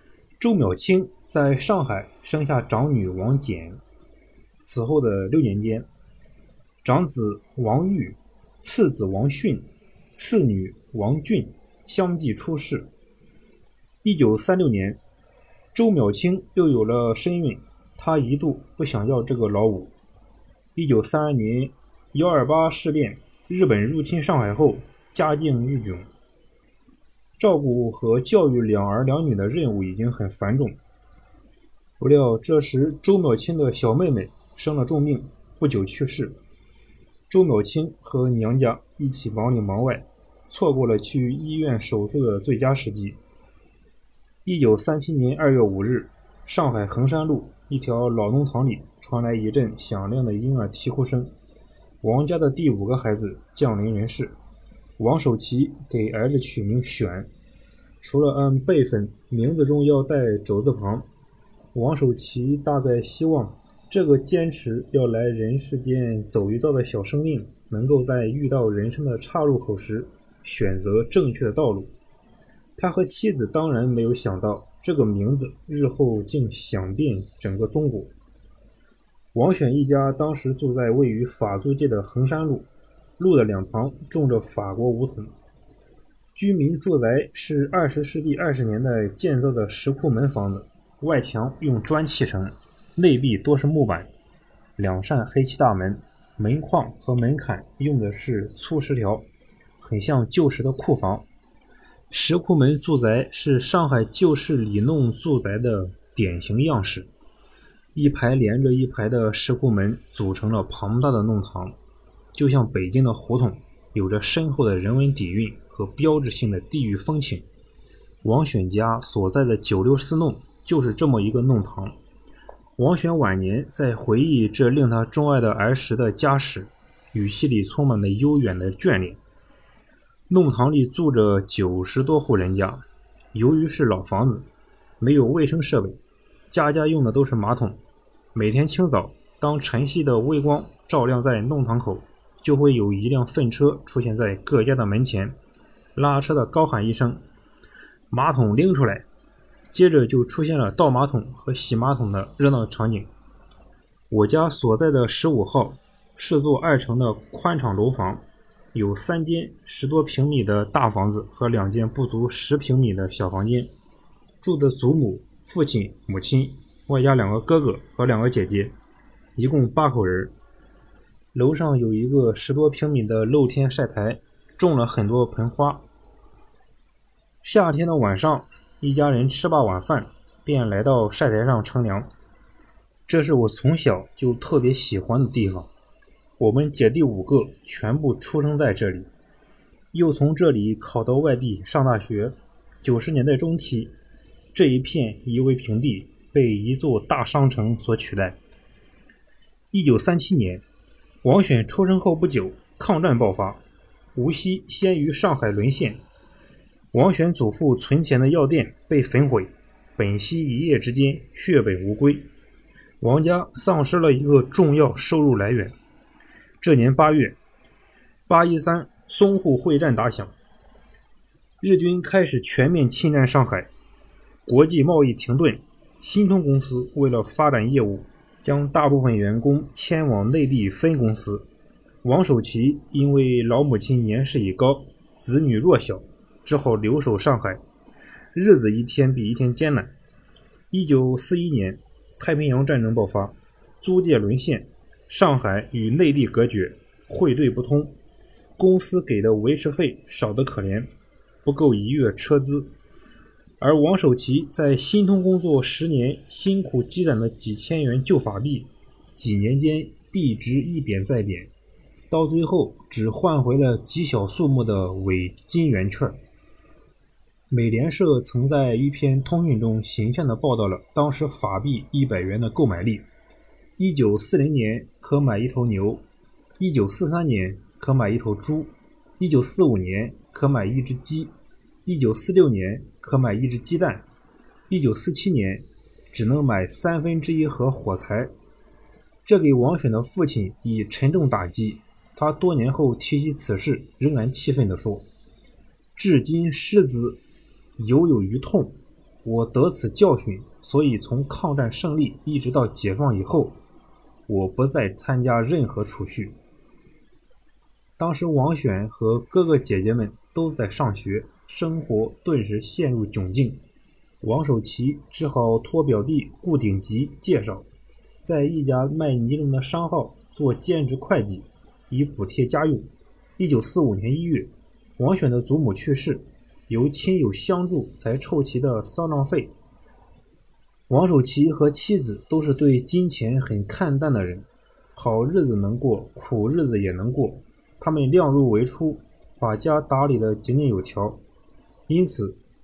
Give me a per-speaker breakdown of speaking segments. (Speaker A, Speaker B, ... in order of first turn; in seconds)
Speaker A: 0.4-3.8, 4.6-5.9, 6.8-12.9, 14.0-15.0, 15.7-19.9, 20.7-26.1, 27.4-30.8, 32.0-36.4, 37.3-43.2, 44.4-51.3, 52.0-54.3, 55.0-57.3, 58.0-61.0, 61.7-71.9, 72.8-78.1, 79.3-82.7, 83.2-85.3, 86.3-94.1, 94.8-99.2, 99.8-101.2, 102.1-107.1, 107.9-111.8, 112.3-117.4, 118.2-122.0, 122.8-129.2, 130.3-132.8, 133.3-134.4, 135.0-136.0, 136.5-137.8, 138.3-145.3, 145.9-147.2, 148.1-149.1, 149.7-153.1, 154.1-163.7, 164.4-168.7, 169.3-170.3, 171.3-175.8, 177.4-182.1, 183.1-185.7, 186.4-189.1, 189.9-193.9, 194.5-198.4, 199.7-200.6, 201.2-203.6, 204.1-206.0, 206.9-212.3, 213.0-215.7, 216.6-217.4, 218.3-220.3, 221.6-223.7, 224.4-231.4, 232.0-237.6, 238.3-239.9, 240.7-247.9, 248.6-250.9, 251.4-252.7, 253.6-261.5, 262.1-266.2, 267.5-273.0, 273.8-276.0, 276.6-281.3, 281.9-284.0, 284.7-288.3, 289.2-295.1, 295.9-297.2, 297.8-303.6, 304.3-306.4, 308.0-313.6, 314.2-317.7, 318.2-329.5, 330.9-341.2, 341.9-342.4